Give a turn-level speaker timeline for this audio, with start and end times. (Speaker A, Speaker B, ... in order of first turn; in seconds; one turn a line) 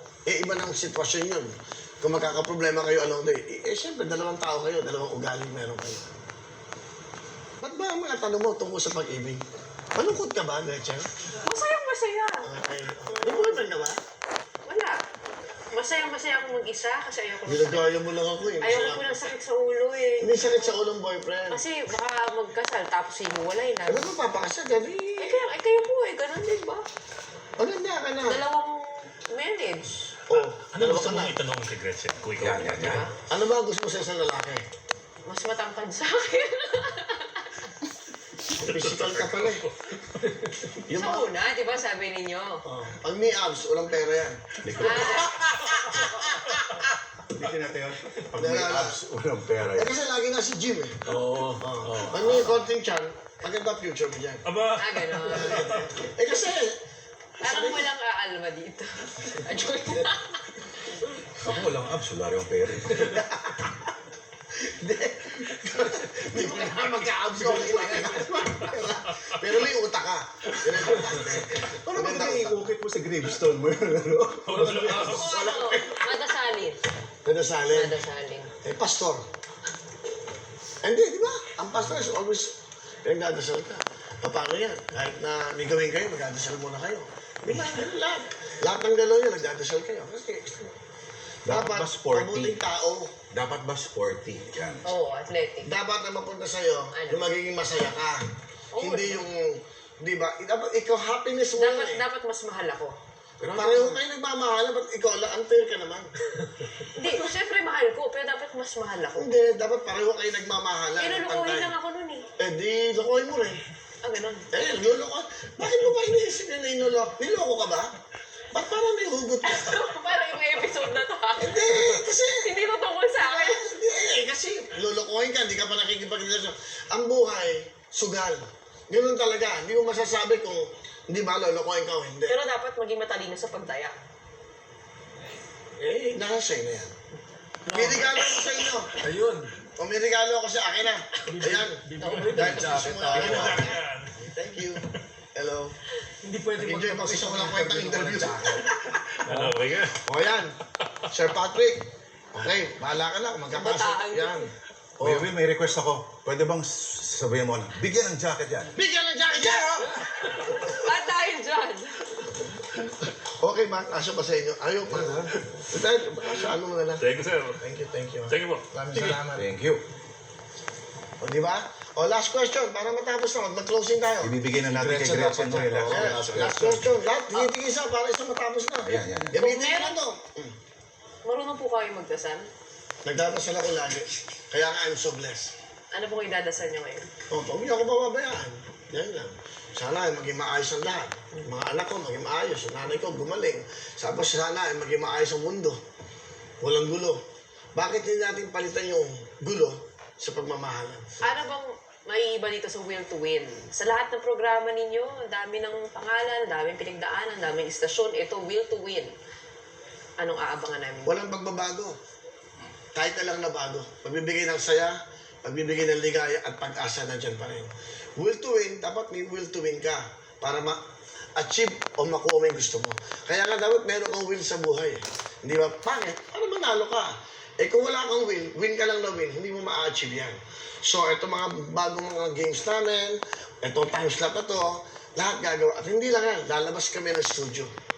Speaker A: 0.3-6.1
Speaker A: 7.6-9.4
Speaker A: 9.9-11.1
Speaker B: 11.4-12.5
Speaker A: 12.4-14.0
Speaker B: 13.2-13.6
Speaker B: 14.7-15.0
Speaker B: 15.7-17.9
Speaker A: 17.5-19.2
Speaker B: 18.6-20.4
Speaker A: 20.2-21.6
Speaker B: 21.5-24.1
Speaker A: 23.9-25.4
Speaker B: 25.2-26.9
Speaker A: 27.6-28.4
Speaker B: 28.2-30.1
Speaker A: 30.3-31.4
Speaker C: 30.3-33.0
Speaker D: 32.4-33.1
Speaker B: 32.7-33.1
Speaker A: 33.2-34.6
Speaker B: 35.3-37.5
Speaker A: 38.5-39.7
Speaker C: 38.7-40.0
Speaker A: 40.9-41.3
Speaker B: 40.9-42.6
Speaker A: 42.8-44.6
Speaker D: 44.6-45.3
Speaker B: 44.8-45.4
Speaker D: 47.3-50.0
Speaker A: 48.4-49.0
Speaker A: 49.7-54.4
Speaker E: 51.1-52.6
Speaker C: 54.5-55.9
Speaker B: 54.8-55.7
Speaker A: 55.2-56.8
Speaker A: 57.4-57.9
Speaker B: 57.4-61.1
Speaker D: 61.4-63.3
Speaker A: 63.0-63.7
Speaker A: 64.5-72.7
Speaker D: 67.6-68.5
Speaker D: 71.6-75.9
Speaker C: 74.5-75.4
Speaker B: 75.0-76.8
Speaker A: 77.2-77.9
Speaker B: 77.7-78.5
Speaker A: 78.6-79.3
Speaker A: 80.8-90.7
Speaker D: 91.5-92.6
Speaker A: 91.5-93.1
Speaker D: 93.3-94.9
Speaker B: 94.8-95.7
Speaker A: 95.7-98.2
Speaker B: 96.9-97.2
Speaker B: 98.7-99.2
Speaker A: 98.8-102.0
Speaker B: 101.6-103.0
Speaker D: 103.4-104.0
Speaker A: 103.5-106.1
Speaker B: 106.9-109.3
Speaker A: 109.2-111.7
Speaker B: 111.0-112.3
Speaker A: 112.4-113.6
Speaker B: 114.0-114.5
Speaker A: 114.5-117.9
Speaker A: 118.5-119.8
Speaker B: 119.4-123.7
Speaker A: 121.4-122.5
Speaker A: 123.2-132.4
Speaker B: 132.3-133.9
Speaker A: 135.8-136.9
Speaker B: 137.7-138.6
Speaker A: 137.7-138.9
Speaker E: 139.0-139.5
Speaker A: 139.8-145.8
Speaker E: 141.3-143.6
Speaker B: 142.0-143.6
Speaker C: 143.2-144.2
Speaker E: 146.2-149.6
Speaker A: 146.6-149.0
Speaker C: 149.3-150.0
Speaker A: 149.9-150.6
Speaker A: 151.1-155.3
Speaker B: 153.5-154.5
Speaker D: 155.0-158.8
Speaker A: 158.8-160.1
Speaker B: 160.1-162.2
Speaker A: 162.6-167.1
Speaker D: 165.0-165.3
Speaker C: 167.0-167.6
Speaker A: 167.6-169.5
Speaker C: 168.3-169.2
Speaker D: 169.3-169.8
Speaker A: 171.2-174.3
Speaker D: 174.2-176.6
Speaker E: 174.7-176.8
Speaker A: 175.8-180.5
Speaker D: 178.8-179.4
Speaker B: 179.3-180.0
Speaker B: 181.2-182.5
Speaker A: 183.0-185.5
Speaker B: 185.9-187.1
Speaker A: 187.3-195.8
Speaker A: 196.6-197.2
Speaker A: 197.8-201.2
Speaker B: 201.2-209.1
Speaker B: 210.2-211.2
Speaker A: 211.1-212.0
Speaker A: 212.9-220.8
Speaker A: 221.4-237.7